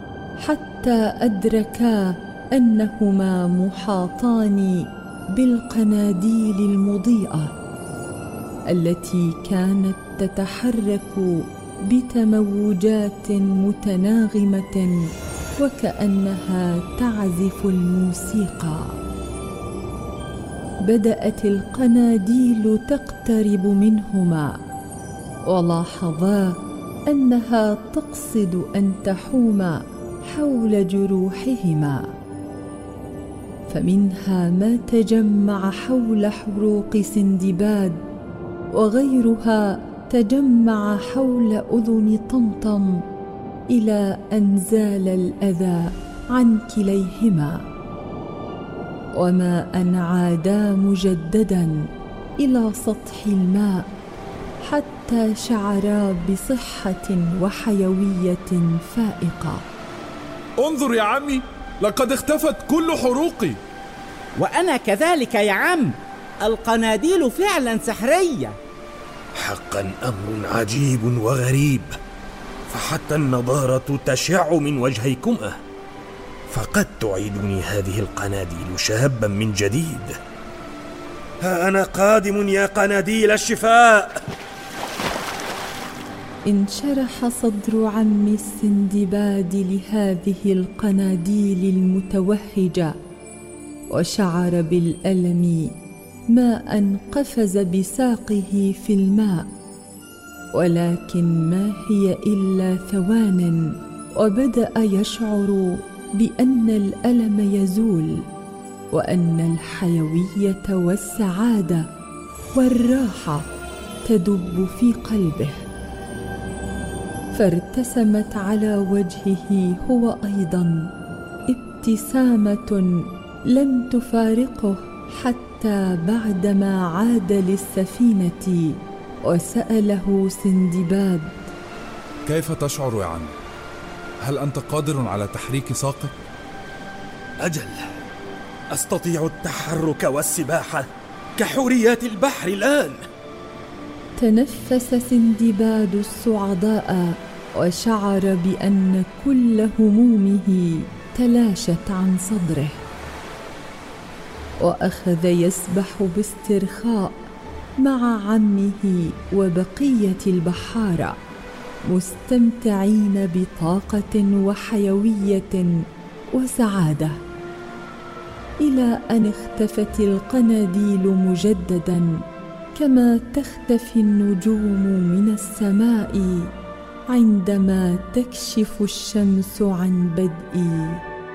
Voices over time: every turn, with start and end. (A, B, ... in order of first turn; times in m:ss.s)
0:00.4-0:07.5 A
0:08.7-0:14.9 A
0:15.6-0:19.0 A
0:20.8-0:24.5 A
0:25.5-0:32.1 A
0:33.7-0:38.0 A
0:38.7-0:43.0 A
0:43.7-0:47.6 A
0:49.2-0:51.8 A
0:52.4-0:53.8 A
0:54.6-0:59.6 A
1:00.6-1:03.6 B
1:04.4-1:08.6 C
1:09.4-1:12.0 D
1:12.7-1:15.6 D
1:16.5-1:20.2 D
1:21.4-1:24.2 D
1:26.5-1:33.0 A
1:33.9-1:35.7 A
1:36.3-1:39.5 A
1:40.5-1:48.2 A
1:48.9-1:51.8 A
1:52.5-1:53.5 A
1:54.0-1:55.6 A
1:57.3-2:00.9 A
2:01.5-2:02.8 A
2:03.5-2:11.5 A
2:12.2-2:13.4 B
2:14.2-2:16.2 B
2:17.4-2:17.8 D
2:18.7-2:23.0 D
2:24.2-2:32.8 A
2:34.6-2:37.2 A
2:37.8-2:41.2 A
2:41.9-2:45.7 A
2:46.3-2:47.2 A
2:48.6-2:52.1 A
2:52.7-2:56.5 A
2:57.1-3:01.0 A